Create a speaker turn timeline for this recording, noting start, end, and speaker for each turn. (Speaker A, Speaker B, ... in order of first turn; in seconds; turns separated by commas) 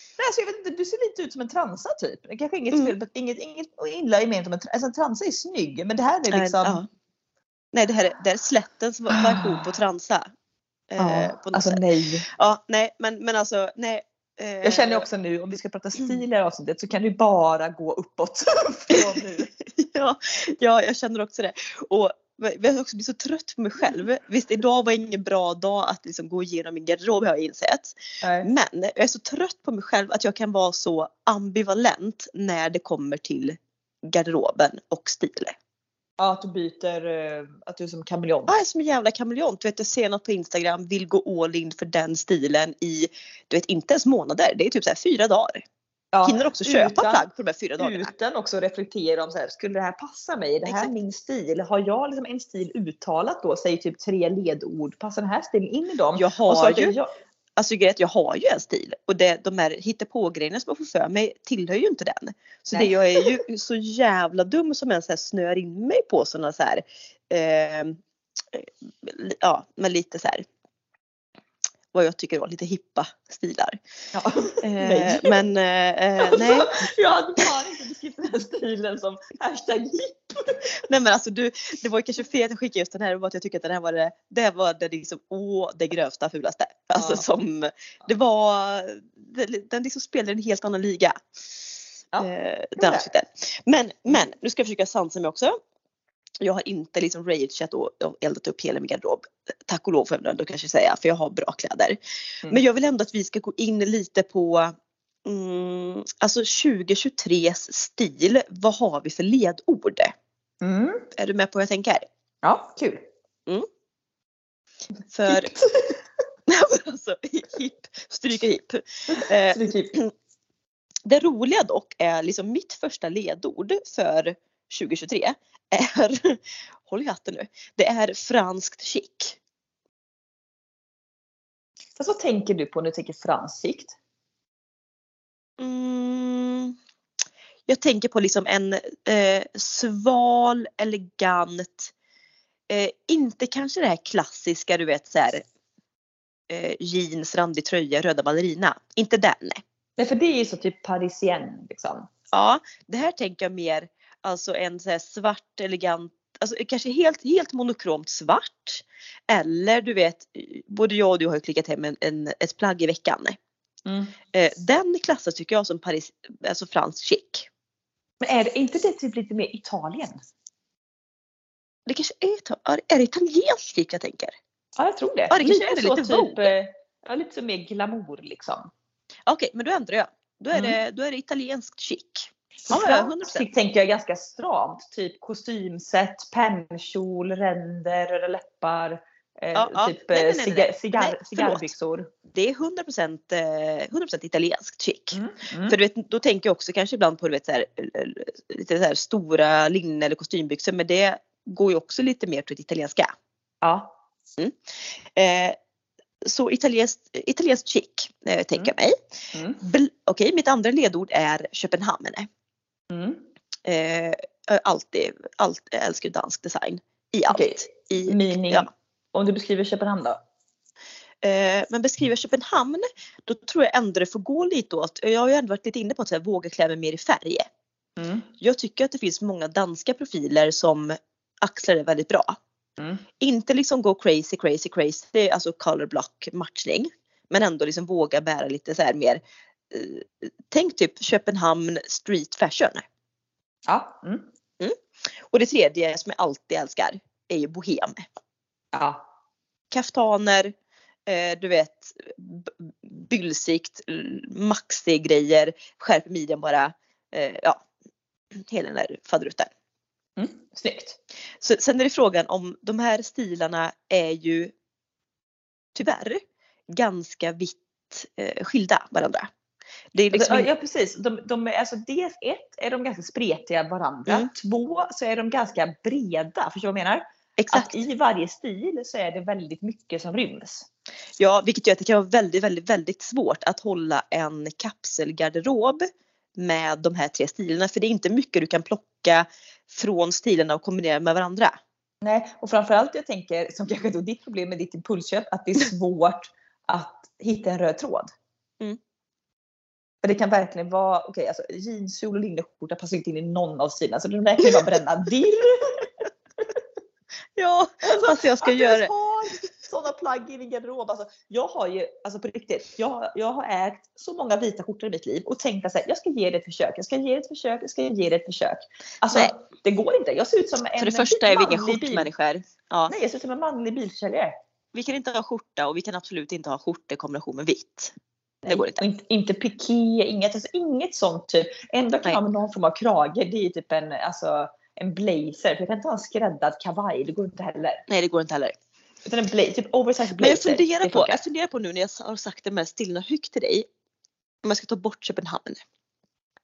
Speaker A: 0.2-6.8, Speaker B: 6.3-6.9, Speaker B: 7.7-10.3, Speaker A: 9.1-9.7, Speaker B: 10.9-15.1, Speaker A: 11.0-12.3, Speaker A: 14.6-19.5, Speaker B: 19.8-35.5, Speaker A: 28.2-28.5, Speaker A: 36.2-38.5, Speaker B: 38.5-45.6, Speaker A: 46.1-47.2, Speaker B: 46.2-48.1, Speaker A: 47.8-57.1, Speaker B: 50.6-50.9, Speaker B: 56.1-57.0, Speaker B: 57.6-68.0, Speaker A: 62.7-63.3, Speaker B: 68.5-70.5, Speaker B: 71.9-73.8, Speaker A: 74.1-75.3, Speaker B: 74.6-76.9, Speaker A: 76.2-80.6, Speaker B: 80.9-95.6, Speaker A: 87.0-87.2, Speaker A: 92.1-93.1, Speaker B: 96.4-102.0, Speaker B: 102.5-104.7, Speaker B: 105.2-110.1, Speaker A: 110.6-111.1, Speaker B: 111.2-112.1, Speaker A: 112.4-113.1, Speaker B: 115.1-115.5, Speaker A: 115.3-116.0, Speaker B: 116.5-120.1, Speaker A: 119.1-120.0, Speaker B: 121.1-129.4, Speaker A: 132.0-134.0, Speaker B: 135.6-136.8, Speaker B: 137.7-141.9, Speaker B: 142.7-145.4, Speaker B: 146.5-149.6, Speaker A: 150.0-152.1, Speaker B: 152.3-163.4, Speaker A: 163.9-164.2, Speaker B: 164.3-167.5, Speaker A: 168.2-170.2, Speaker B: 171.9-174.4, Speaker A: 174.8-178.7, Speaker B: 175.3-176.5, Speaker B: 179.3-183.5, Speaker A: 180.5-180.8, Speaker A: 182.7-192.1, Speaker B: 189.6-191.7, Speaker B: 192.3-203.1, Speaker A: 195.1-195.8, Speaker A: 203.6-203.9, Speaker B: 204.4-205.6, Speaker B: 206.2-209.0, Speaker A: 209.3-209.6, Speaker B: 209.6-212.3, Speaker A: 212.9-213.2, Speaker B: 213.7-218.7, Speaker A: 217.3-220.2, Speaker B: 221.2-227.5, Speaker A: 228.0-228.3, Speaker B: 228.4-232.4, Speaker A: 232.8-233.0, Speaker B: 233.2-242.8, Speaker A: 243.7-244.3, Speaker B: 244.6-248.0, Speaker A: 248.7-249.0, Speaker B: 249.7-250.5, Speaker B: 251.1-257.6, Speaker B: 258.4-259.5, Speaker A: 260.2-261.0, Speaker B: 261.4-264.5, Speaker B: 265.8-269.3, Speaker B: 269.9-270.5, Speaker A: 270.1-280.7, Speaker B: 277.4-277.8, Speaker B: 281.2-291.6, Speaker A: 292.0-298.1, Speaker A: 300.0-305.9, Speaker B: 307.4-308.9, Speaker A: 307.8-322.1, Speaker B: 320.8-322.9, Speaker A: 322.9-324.4, Speaker B: 324.7-327.9, Speaker A: 328.4-337.8, Speaker B: 328.5-328.9, Speaker B: 337.9-338.6, Speaker A: 339.1-341.2, Speaker B: 340.2-343.7, Speaker B: 344.4-345.6